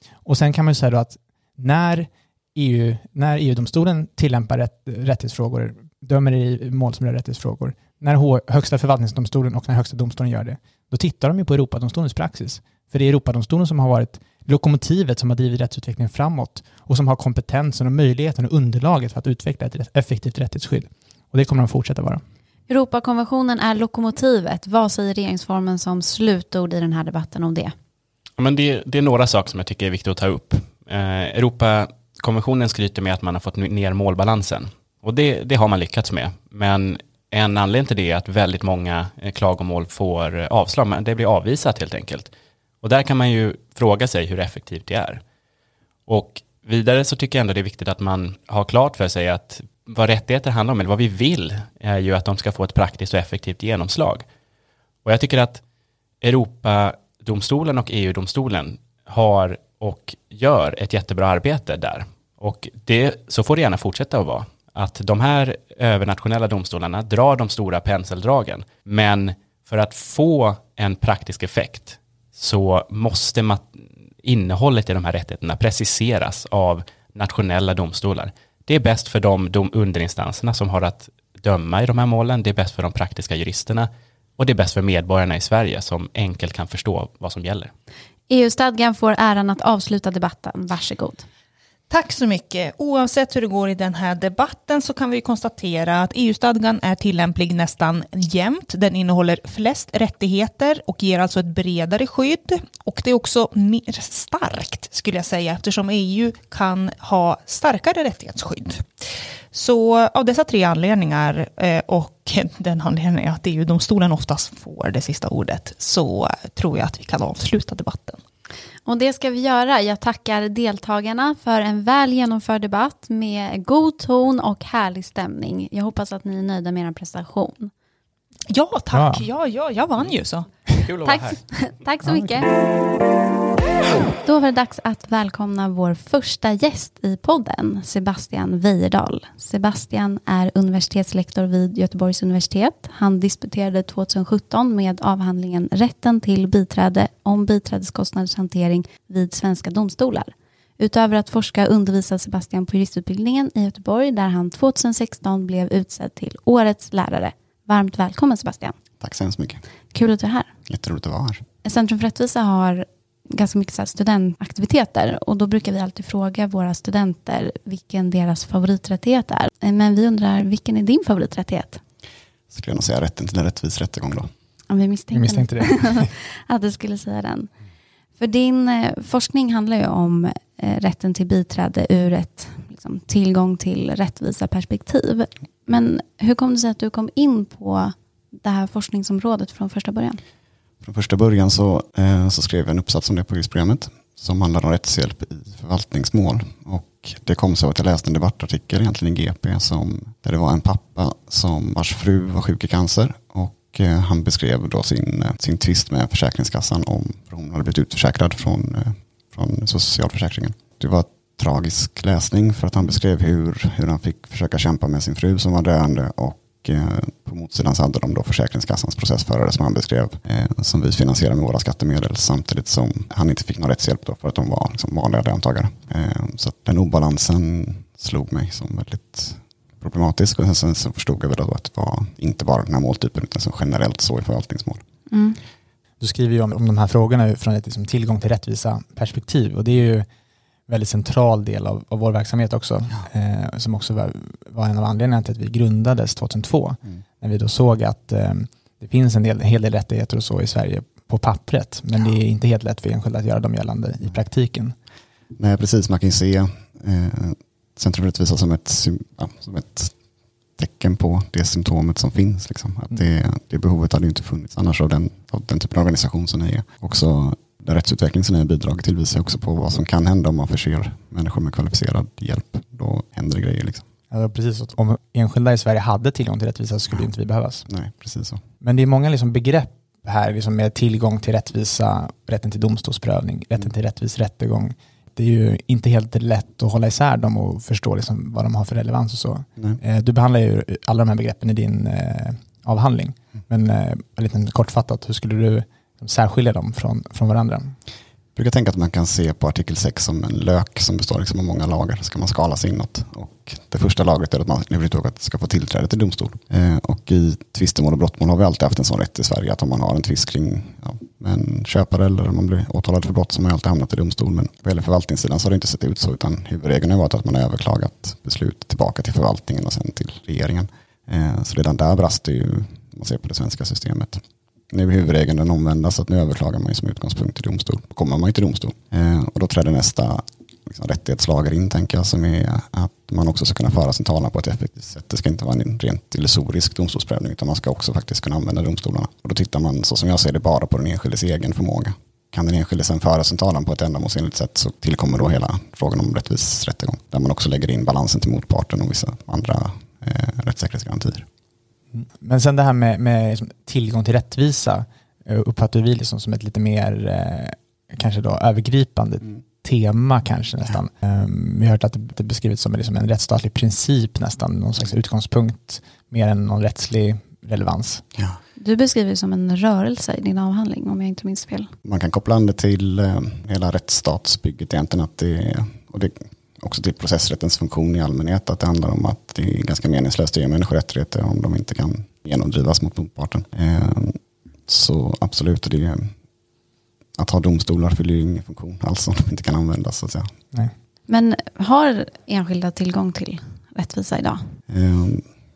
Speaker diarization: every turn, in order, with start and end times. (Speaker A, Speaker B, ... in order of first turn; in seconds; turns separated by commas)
Speaker A: 0.2-22.2, Speaker B: 22.7-27.7, Speaker C: 28.4-45.2, Speaker C: 46.1-54.2, Speaker C: 55.0-55.6, Speaker C: 56.2-87.7, Speaker B: 88.3-91.2, Speaker D: 91.9-108.9, Speaker D: 109.5-118.2, Speaker B: 118.8-127.7, Speaker D: 128.5-130.5, Speaker A: 128.9-129.3, Speaker C: 130.7-131.4, Speaker B: 131.0-132.5, Speaker A: 132.0-132.4, Speaker B: 134.2-158.8, Speaker E: 159.0-159.6, Speaker B: 159.9-160.5, Speaker E: 160.7-161.4, Speaker B: 161.6-171.8, Speaker E: 172.5-174.3, Speaker B: 174.7-177.5, Speaker A: 175.1-176.1, Speaker B: 178.2-190.2, Speaker E: 190.8-234.8, Speaker B: 235.1-235.4, Speaker A: 236.0-240.1, Speaker A: 240.7-254.7, Speaker E: 255.4-259.9, Speaker E: 260.6-273.9, Speaker A: 274.1-277.7, Speaker E: 277.7-278.4, Speaker A: 278.6-297.7, Speaker E: 298.4-351.2, Speaker A: 351.9-368.0, Speaker B: 368.6-371.7, Speaker E: 371.8-386.1, Speaker E: 387.2-390.3, Speaker B: 391.1-394.6, Speaker E: 394.7-395.3